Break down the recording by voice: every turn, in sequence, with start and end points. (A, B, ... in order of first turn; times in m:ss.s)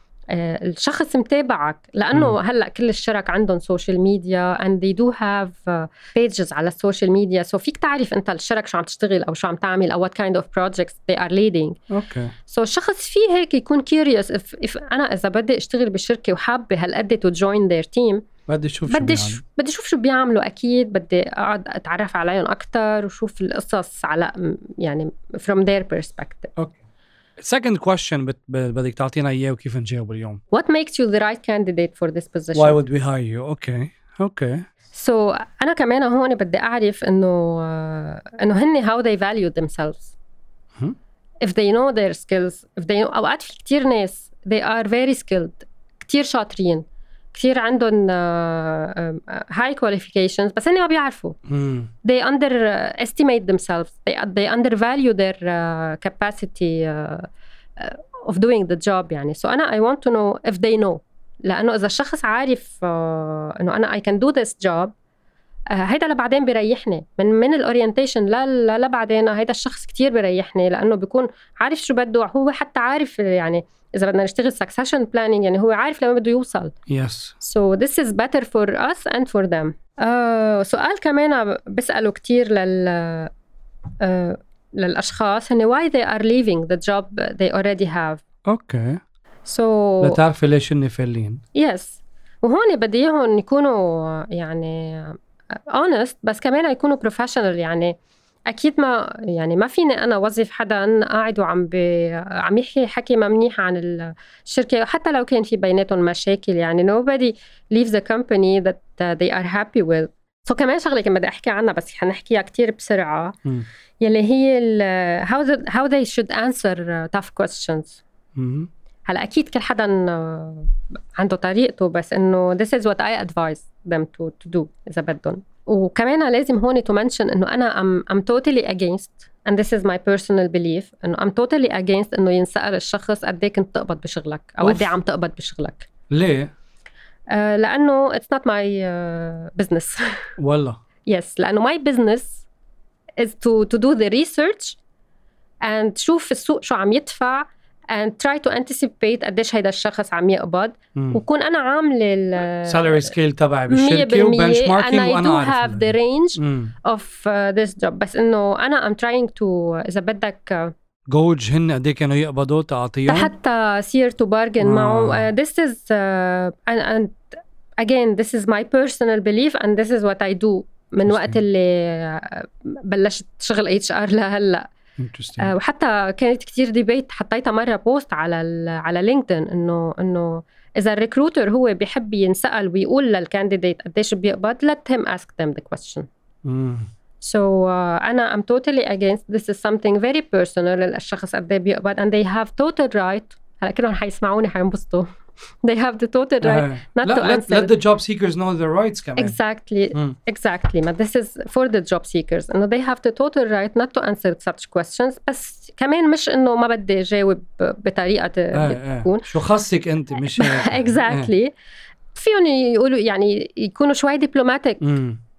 0:00.3-0:11.8 A
0:11.9-0:12.3 B
0:12.5-0:18.3 A
0:18.5-0:19.4 B
0:18.9-0:26.5 A
0:27.4-0:30.4 B
0:30.5-0:32.8 A
0:32.6-0:34.6 B
0:34.9-0:40.2 A
0:41.4-0:51.4 A
0:51.5-0:51.9 B
0:52.0-1:04.9 A
1:05.7-1:16.8 A
1:16.9-1:17.4 B
1:17.4-1:23.3 A
1:24.0-1:28.2 A
1:28.5-1:29.0 B
1:29.4-1:30.2 A
1:30.0-1:31.4 B
1:31.6-1:35.2 A
1:35.7-1:38.0 A
1:38.5-1:53.4 A
1:54.0-1:58.0 A
1:58.4-1:58.7 B
1:59.1-2:15.9 A
2:14.6-2:14.9 B
2:16.1-2:16.5 B
2:17.3-2:20.0 A
2:20.4-2:20.8 B
2:21.1-2:22.4 A
2:23.2-2:24.8 A
2:25.6-2:33.1 A
2:31.0-2:31.2 B
2:32.6-2:36.7 B
2:33.7-2:40.7 A
2:41.1-2:43.3 B
2:43.1-2:47.2 A
2:44.6-2:45.3 B
2:47.8-2:54.7 A
2:51.0-2:51.4 B
2:55.0-2:55.5 B
2:55.4-3:06.1 A
3:06.4-3:06.9 B
3:07.2-3:15.1 A
3:15.6-3:17.7 A
3:16.4-3:19.4 B
3:19.2-3:29.3 A
3:28.5-3:31.3 B
3:30.4-3:31.5 A
3:32.2-3:34.8 A
3:34.8-3:35.2 B